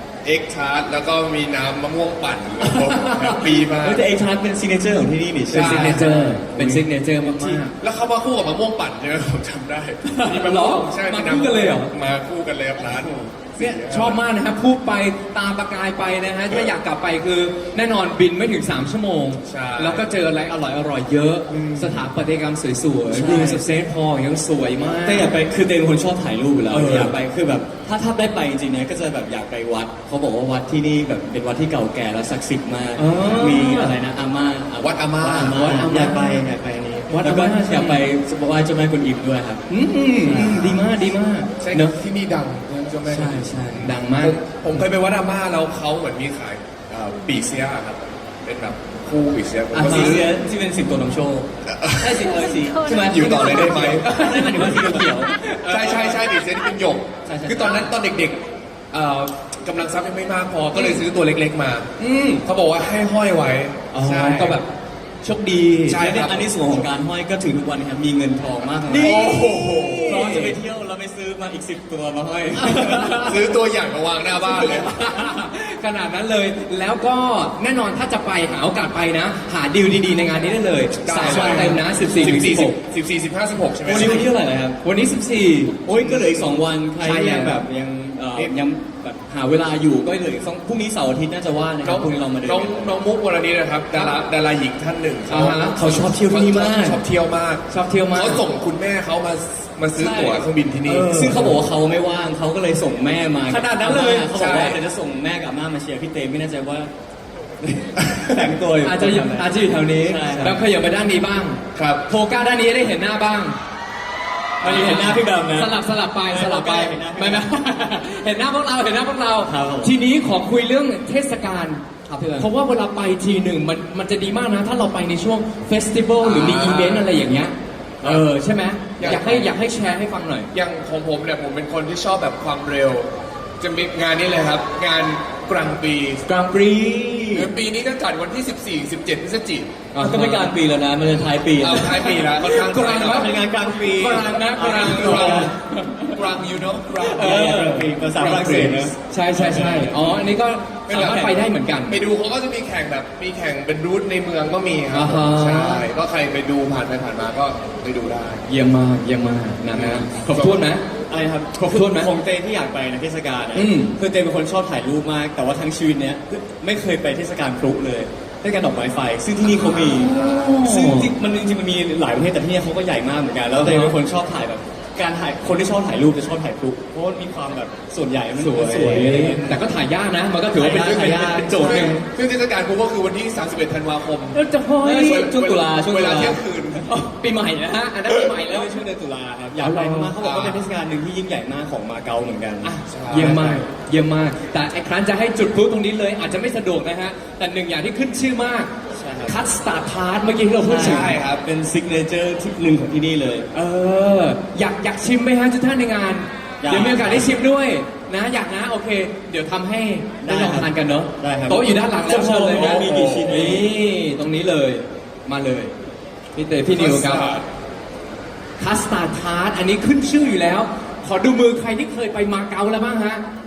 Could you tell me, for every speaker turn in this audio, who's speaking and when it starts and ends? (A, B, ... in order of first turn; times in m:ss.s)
0:00.2-0:04.0 A
0:02.6-0:07.6 B
0:05.5-0:06.1 A
0:05.5-0:07.7 C
0:07.8-0:14.2 A
0:10.0-0:11.9 C
0:13.3-0:25.3 C
0:19.4-0:20.0 A
0:21.5-0:22.0 A
0:23.1-0:23.6 B
0:25.0-0:39.6 B
0:26.7-0:27.1 A
0:33.0-0:34.0 C
0:34.8-0:35.6 A
0:35.5-0:36.4 C
0:37.1-0:38.0 C
0:39.7-0:41.9 C
0:40.2-0:40.8 B
0:40.4-0:40.8 A
0:41.6-0:50.3 A
0:43.0-0:43.9 B
0:43.8-0:44.4 C
0:49.7-0:51.4 B
0:51.6-0:52.2 A
0:52.0-0:56.2 B
0:52.9-0:54.1 A
0:54.0-0:55.6 C
0:55.6-0:58.4 A
0:57.2-0:57.9 B
0:58.9-1:01.9 A
1:00.7-1:01.0 C
1:02.0-1:02.4 C
1:02.4-1:04.6 A
1:03.9-1:04.7 C
1:05.2-1:06.1 C
1:05.9-1:06.9 A
1:05.9-1:09.2 B
1:08.9-1:10.6 C
1:08.9-1:10.2 A
1:10.0-1:13.3 B
1:12.6-1:13.4 C
1:13.2-1:14.9 A
1:14.4-1:22.8 C
1:21.0-1:24.2 A
1:21.2-1:22.3 B
1:23.8-1:24.8 B
1:23.9-1:24.3 C
1:24.8-1:27.6 C
1:25.8-1:33.0 B
1:31.8-1:41.2 A
1:33.9-1:34.2 C
1:35.3-1:35.8 C
1:35.7-1:37.0 B
1:37.7-1:38.4 C
1:39.9-1:46.9 B
1:40.9-1:41.5 C
1:43.5-1:44.5 C
1:44.3-1:44.8 A
1:47.6-1:50.6 B
1:48.0-1:48.3 A
1:48.8-1:53.6 C
1:51.7-1:52.0 A
1:54.6-2:01.8 C
1:54.6-1:55.8 B
1:56.3-1:57.5 B
1:59.4-1:59.9 B
2:02.1-2:02.5 B
2:02.4-2:10.5 C
2:06.2-2:07.1 A
2:09.0-2:09.5 A
2:10.5-2:13.1 A
2:13.6-2:16.3 A
2:16.3-2:17.4 C
2:16.4-2:17.4 B
2:17.3-2:19.7 A
2:19.9-2:20.5 C
2:20.0-2:22.2 B
2:21.6-2:23.3 A
2:21.8-2:25.5 C
2:22.9-2:25.5 B
2:24.6-2:25.5 A
2:26.1-2:27.4 A
2:27.0-2:30.3 B
2:27.1-2:32.0 C
2:28.2-2:28.9 A
2:30.9-2:31.4 B
2:31.9-2:38.4 A
2:34.9-2:35.9 C
2:38.5-2:40.8 C
2:39.7-2:40.6 A
2:39.9-2:40.5 B
2:41.1-2:59.6 B
2:41.6-2:42.1 C
2:43.5-2:43.9 C
2:49.9-2:51.1 C
2:53.6-2:54.0 C
2:58.3-3:02.0 C
3:00.5-3:02.0 B
3:01.6-3:04.4 A
3:04.3-3:05.3 C
3:04.8-3:06.4 B
3:05.0-3:06.9 A
3:06.9-3:08.8 C
3:08.2-3:13.6 B
3:09.5-3:10.2 C
3:10.2-3:10.6 A
3:12.6-3:18.7 C
3:12.9-3:13.4 A
3:18.9-3:19.4 B
3:19.2-3:21.2 C
3:20.6-3:23.5 B
3:20.8-3:21.4 A
3:23.5-3:35.7 C
3:26.6-3:27.3 B
3:30.2-3:33.7 B
3:32.5-3:33.3 A
3:36.3-3:37.4 C
3:36.7-3:37.4 A
3:38.6-3:43.2 C